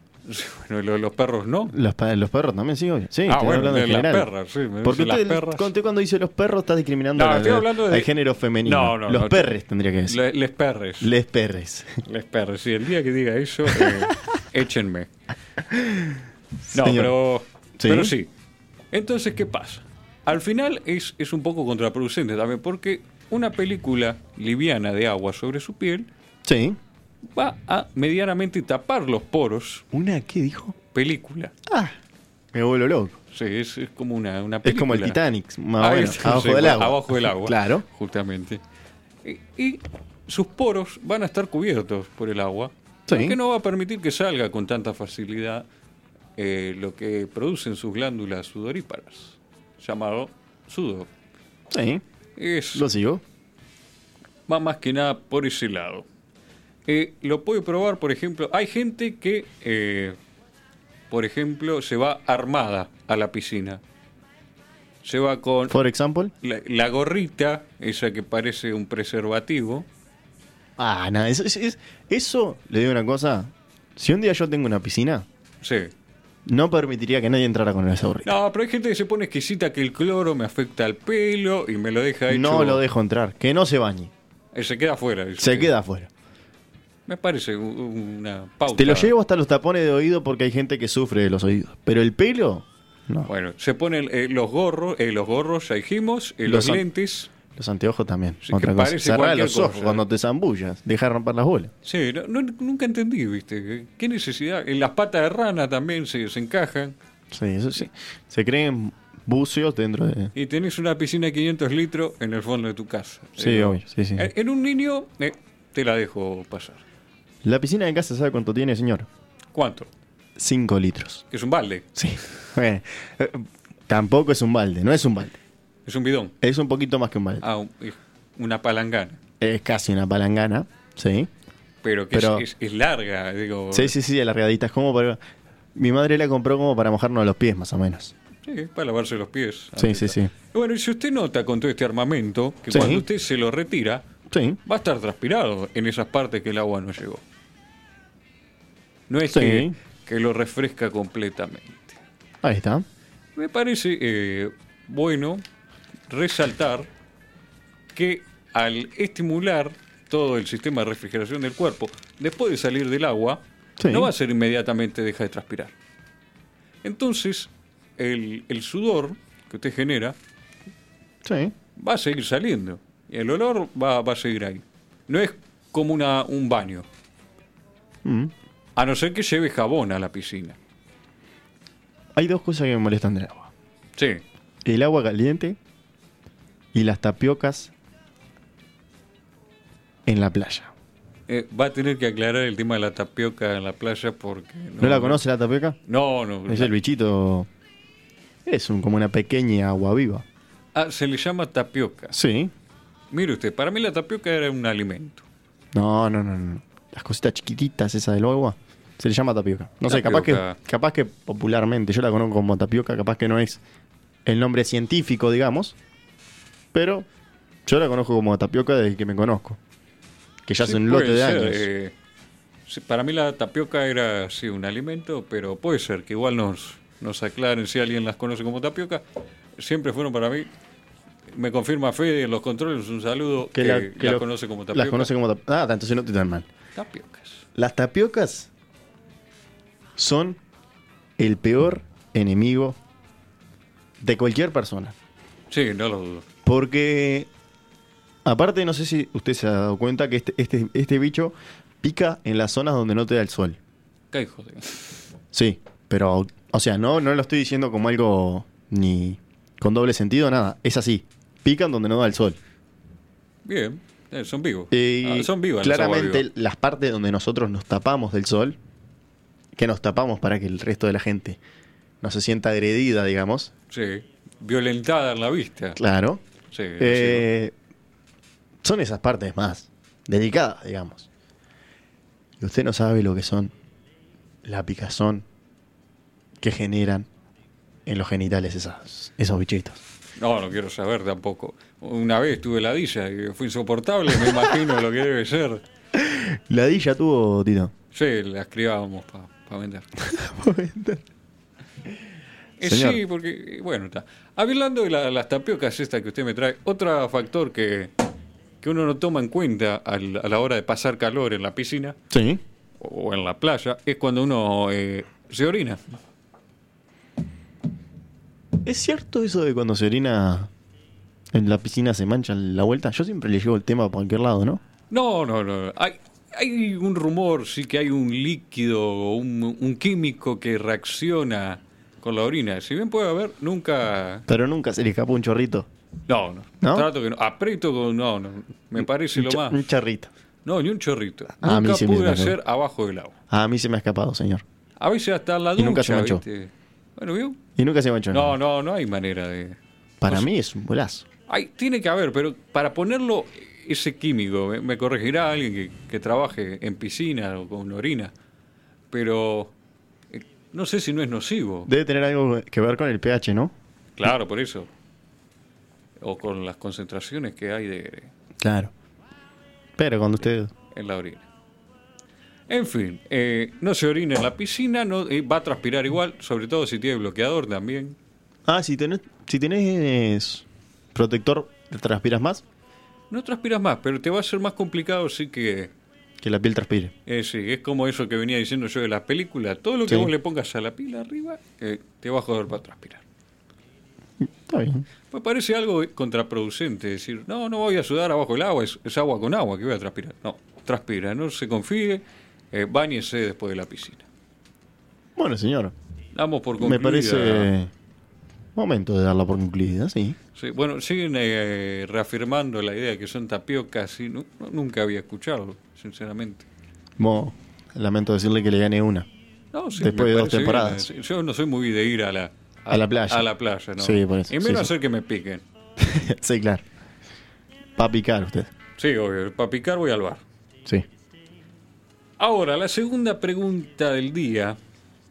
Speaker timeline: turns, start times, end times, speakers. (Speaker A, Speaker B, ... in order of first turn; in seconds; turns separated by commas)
Speaker A: 0.2-1.7, Speaker B: 1.7-4.3, Speaker A: 3.3-5.7, Speaker B: 4.8-10.2, Speaker A: 7.2-8.1, Speaker A: 8.6-11.1, Speaker B: 11.0-12.0, Speaker A: 12.0-15.1, Speaker B: 13.7-14.1, Speaker B: 15.7-17.1, Speaker A: 16.7-18.3, Speaker B: 17.8-18.1, Speaker A: 18.9-26.1, Speaker B: 26.4-26.8, Speaker A: 27.3-29.8, Speaker B: 29.9-30.8, Speaker A: 30.9-31.5, Speaker B: 31.6-31.9, Speaker B: 32.5-33.2, Speaker A: 33.3-35.2, Speaker B: 34.6-37.8, Speaker A: 35.8-38.6, Speaker A: 39.2-45.6, Speaker B: 43.1-43.4, Speaker A: 46.4-51.1, Speaker B: 51.7-52.0, Speaker A: 52.4-52.9, Speaker B: 52.7-53.2, Speaker A: 54.5-56.0, Speaker A: 56.9-60.2, Speaker A: 61.1-63.8, Speaker A: 65.0-65.8, Speaker B: 65.7-66.3, Speaker A: 66.4-69.9, Speaker B: 70.8-75.2, Speaker A: 75.6-75.9, Speaker B: 76.5-78.3, Speaker A: 78.2-82.8, Speaker B: 82.3-84.1, Speaker A: 84.5-85.7, Speaker B: 85.4-86.1, Speaker A: 87.1-89.1, Speaker B: 88.7-93.3, Speaker A: 93.2-97.3, Speaker B: 96.4-96.8, Speaker B: 97.5-101.7, Speaker A: 98.4-100.0, Speaker A: 101.8-107.0, Speaker B: 107.3-110.3, Speaker A: 110.3-116.8, Speaker B: 113.4-114.3, Speaker B: 117.4-119.1, Speaker A: 119.5-119.9, Speaker B: 120.4-121.2, Speaker A: 121.3-121.9, Speaker B: 122.0-125.3, Speaker A: 125.8-126.3, Speaker B: 126.4-127.4, Speaker A: 127.4-129.2, Speaker B: 129.4-131.3, Speaker A: 131.8-133.9, Speaker B: 132.1-132.4, Speaker B: 133.7-135.2, Speaker B: 135.7-138.1, Speaker A: 138.4-144.0, Speaker B: 139.8-140.3, Speaker B: 142.7-143.1, Speaker B: 144.3-144.6, Speaker A: 144.6-147.2, Speaker A: 149.1-152.0, Speaker B: 149.3-149.7, Speaker B: 152.4-152.8, Speaker A: 153.3-155.4, Speaker A: 156.1-156.9, Speaker A: 157.9-165.7, Speaker B: 163.8-164.1, Speaker A: 166.8-170.2, Speaker B: 171.2-171.5, Speaker A: 171.8-176.9, Speaker B: 178.0-178.3, Speaker A: 178.8-180.6, Speaker B: 182.1-183.5, Speaker A: 184.0-184.2, Speaker B: 184.6-185.6, Speaker B: 186.7-187.7, Speaker B: 190.1-190.7, Speaker A: 191.3-195.2, Speaker B: 194.8-195.8, Speaker A: 195.9-196.7, Speaker B: 196.5-197.5, Speaker B: 198.4-200.2, Speaker A: 200.7-202.2, Speaker B: 202.1-202.5, Speaker A: 203.1-205.2, Speaker B: 205.7-213.6, Speaker A: 209.9-210.6, Speaker B: 214.2-215.8, Speaker B: 216.7-217.1, Speaker B: 217.7-219.6, Speaker B: 220.4-221.7, Speaker A: 220.6-221.9, Speaker A: 222.7-229.0, Speaker A: 229.6-230.5, Speaker A: 231.3-235.1, Speaker B: 233.5-236.5, Speaker A: 236.7-237.4, Speaker B: 237.5-238.5, Speaker B: 239.9-240.4, Speaker B: 241.2-242.8, Speaker B: 244.0-244.9, Speaker A: 245.5-246.2, Speaker B: 246.4-247.3, Speaker B: 248.2-253.6, Speaker A: 254.1-255.0, Speaker B: 255.3-262.4, Speaker A: 263.4-266.2, Speaker B: 264.7-268.6, Speaker B: 269.5-271.4, Speaker B: 272.0-273.5, Speaker A: 273.7-275.8, Speaker B: 275.8-276.2, Speaker A: 276.5-277.3, Speaker B: 276.8-277.5, Speaker B: 278.6-281.1, Speaker B: 282.4-283.5, Speaker B: 284.4-285.2, Speaker B: 286.4-287.1, Speaker B: 287.9-289.8, Speaker A: 290.2-295.6, Speaker B: 295.9-297.7, Speaker A: 297.9-299.9, Speaker B: 300.0-301.0, Speaker A: 302.6-307.9, Speaker B: 302.6-303.0, Speaker A: 308.6-312.0, Speaker B: 312.1-312.4, Speaker A: 312.8-315.8, Speaker B: 318.6-320.5, Speaker B: 321.3-324.6, Speaker A: 324.9-334.2, Speaker B: 334.3-335.7, Speaker A: 336.1-339.7, Speaker B: 336.6-336.9, Speaker B: 339.1-340.1, Speaker A: 340.4-343.1, Speaker B: 341.4-342.4, Speaker B: 343.3-344.4, Speaker A: 344.8-347.4, Speaker B: 345.6-346.2, Speaker B: 347.6-348.3, Speaker A: 348.1-350.3, Speaker B: 350.0-351.1, Speaker A: 351.3-358.1, Speaker A: 358.9-359.5, Speaker A: 360.1-361.7, Speaker B: 361.7-363.5, Speaker A: 364.0-364.7, Speaker A: 366.0-368.1, Speaker B: 368.4-368.7, Speaker B: 369.8-370.5, Speaker A: 370.7-371.2, Speaker A: 372.5-378.0, Speaker B: 378.5-382.4, Speaker A: 383.1-385.7, Speaker B: 386.2-386.9, Speaker A: 387.1-393.0, Speaker B: 394.2-394.8, Speaker A: 395.1-404.1, Speaker B: 405.1-405.7, Speaker A: 406.1-407.5, Speaker B: 406.6-407.7, Speaker B: 408.6-410.2, Speaker A: 410.3-416.5, Speaker B: 417.0-419.1, Speaker A: 419.5-425.4, Speaker B: 419.8-420.9, Speaker B: 422.7-424.7, Speaker B: 425.8-426.6, Speaker B: 427.8-428.5, Speaker A: 428.8-430.2, Speaker A: 432.2-434.6